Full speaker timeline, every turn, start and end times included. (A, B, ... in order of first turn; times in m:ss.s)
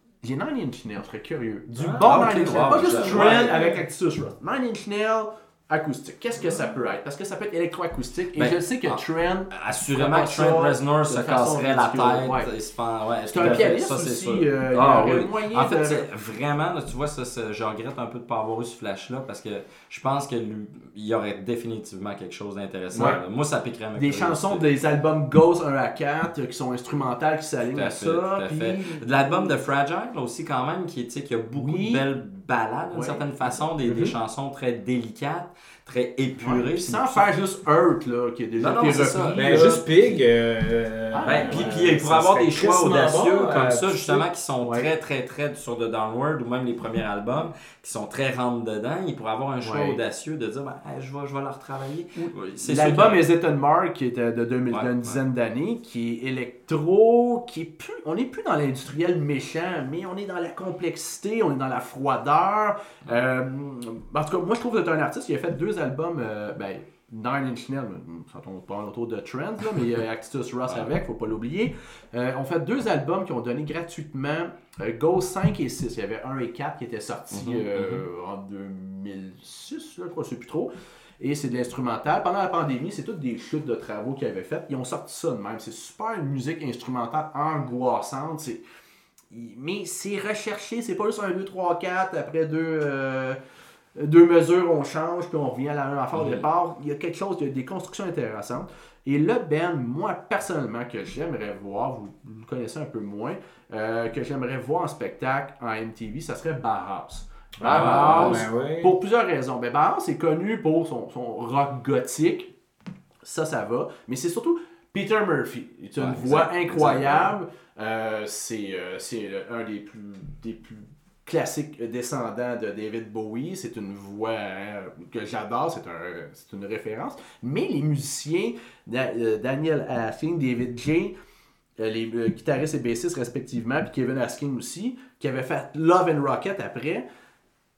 0:00.2-0:12.5 A
0:01.8-0:03.8 B
0:02.0-0:03.5 C
0:08.4-0:24.7 C
0:13.3-0:16.0 A
0:22.9-0:23.2 B
0:24.0-0:29.6 A
0:27.7-0:37.3 C
0:31.6-0:32.0 A
0:32.9-0:33.6 A
0:33.9-0:34.1 B
0:36.4-0:39.8 A
0:38.6-0:40.2 C
0:39.4-0:44.2 B
0:41.1-0:41.9 A
0:41.2-0:53.3 C
0:44.6-0:44.9 A
0:49.6-0:50.0 A
0:52.2-1:28.6 A
0:54.7-0:55.2 C
1:17.3-1:18.0 C
1:29.3-1:33.4 A
1:34.0-1:52.5 A
1:36.1-1:36.4 C
1:47.6-1:49.0 B
1:47.7-1:48.4 C
1:53.2-2:11.1 A
1:56.0-1:57.4 C
2:11.8-2:17.0 A